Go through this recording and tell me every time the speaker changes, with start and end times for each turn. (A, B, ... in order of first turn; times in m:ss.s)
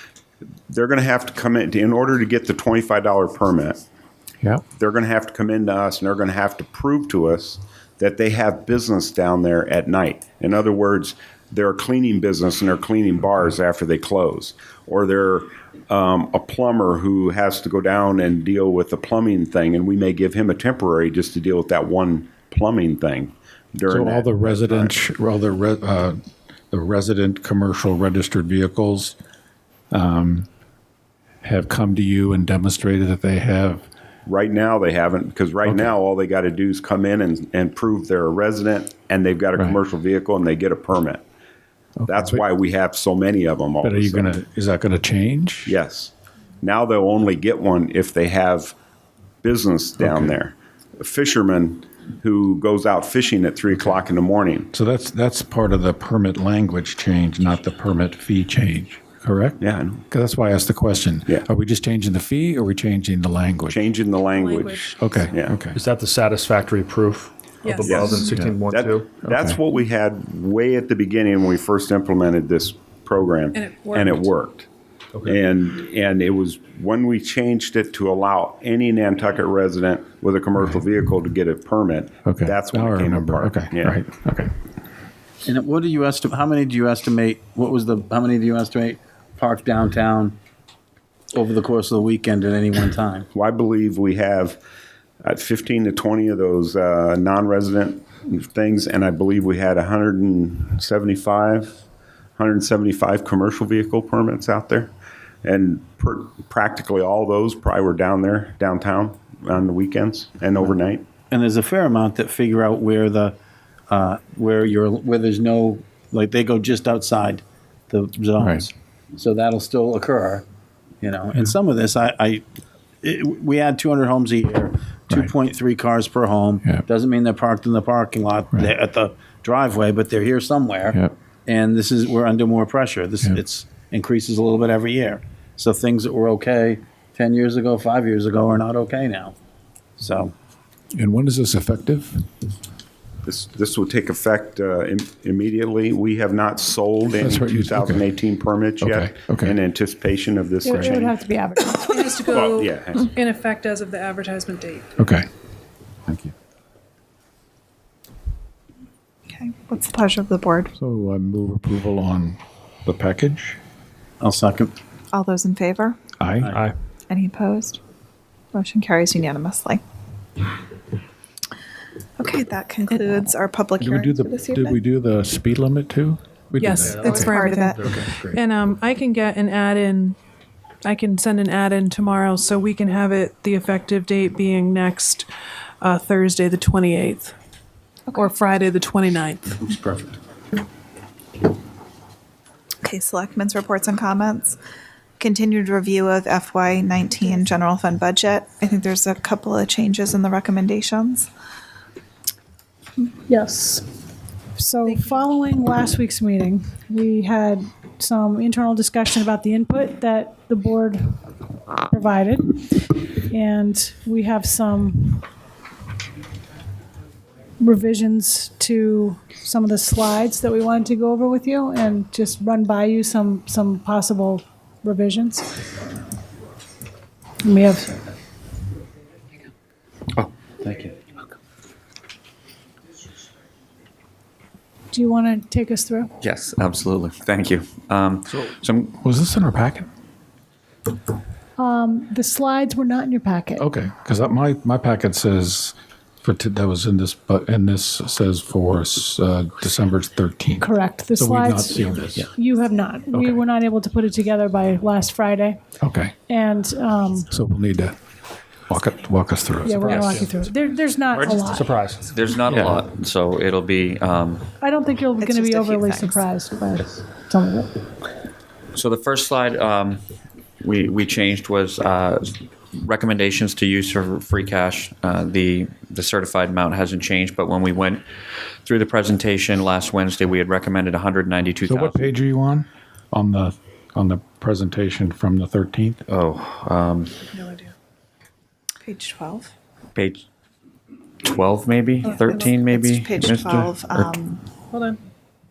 0:00.7-0:03.8 A
0:04.8-0:24.9 A
0:23.9-0:26.2 B
0:26.7-0:29.2 B
0:29.9-0:30.5 B
0:31.4-0:33.9 B
0:34.3-0:41.2 A
0:35.6-0:35.9 B
0:42.0-0:42.4 B
0:42.1-0:44.4 A
0:43.8-0:45.8 B
0:45.7-0:48.8 A
0:49.4-0:54.7 A
0:50.0-0:50.4 B
0:54.7-1:03.8 B
0:59.6-1:00.0 A
1:03.7-1:05.6 A
1:04.3-1:05.3 C
1:05.0-1:05.8 B
1:05.8-1:07.3 D
1:07.6-1:08.4 C
1:07.8-1:09.1 D
1:07.9-1:14.7 A
1:09.3-1:09.6 B
1:13.5-1:14.4 C
1:15.2-1:24.0 A
1:22.2-1:24.5 B
1:25.5-1:30.4 E
1:31.3-1:33.3 E
1:33.3-1:34.6 A
1:35.2-1:41.8 A
1:42.4-1:44.9 A
1:45.4-1:51.1 A
1:51.3-1:53.4 E
1:53.9-2:00.4 E
1:58.4-1:58.7 B
2:01.0-2:02.4 E
2:03.0-2:19.4 E
2:20.0-2:20.3 E
2:20.9-2:22.2 B
2:23.2-2:31.2 A
2:27.1-2:28.0 B
2:28.8-2:29.6 B
2:30.6-2:32.0 F
2:31.9-2:34.9 C
2:32.3-2:33.2 A
2:35.0-2:35.3 B
2:36.1-2:36.3 B
2:39.3-2:40.7 G
2:40.8-2:43.6 B
2:44.2-2:44.7 E
2:45.1-2:46.0 G
2:46.2-2:46.5 B
2:46.4-2:46.8 E
2:47.1-2:47.8 G
2:48.5-2:49.8 G
2:52.2-2:54.8 G
2:53.8-2:58.4 B
2:56.6-3:00.2 C
2:56.9-2:58.1 G
3:00.8-3:05.3 C
3:05.8-3:07.4 C
3:08.1-3:10.0 C
3:12.8-3:14.6 G
3:15.2-3:21.3 G
3:23.2-3:23.9 F
3:24.6-3:31.2 F
3:24.9-3:25.4 C
3:31.9-3:35.3 F
3:37.6-3:45.5 F
3:47.4-3:48.0 F
3:50.6-3:51.0 E
3:54.9-3:56.1 F
3:56.2-3:59.0 H
3:59.0-3:59.9 B
4:01.6-4:03.6 F
4:03.6-4:12.3 B
4:10.6-4:15.6 F
4:13.1-4:13.4 B
4:15.8-4:16.1 B
4:16.2-4:17.3 F
4:17.3-4:18.0 B
4:18.7-4:20.2 B
4:19.6-4:21.8 F
4:19.9-4:20.3 H
4:21.1-4:21.4 H
4:22.0-4:24.5 H
4:22.5-4:22.8 B
4:24.6-4:27.8 F
4:25.2-4:26.2 G
4:28.7-4:30.0 H
4:30.6-4:38.0 H
4:38.6-4:42.0 H
4:41.6-4:46.0 B
4:46.1-4:47.1 H
4:47.2-4:47.7 C
4:48.8-4:49.5 G
4:50.0-4:50.2 H
4:51.2-4:54.2 H
4:52.0-4:54.4 G
4:52.0-4:52.5 C
4:54.7-4:55.0 C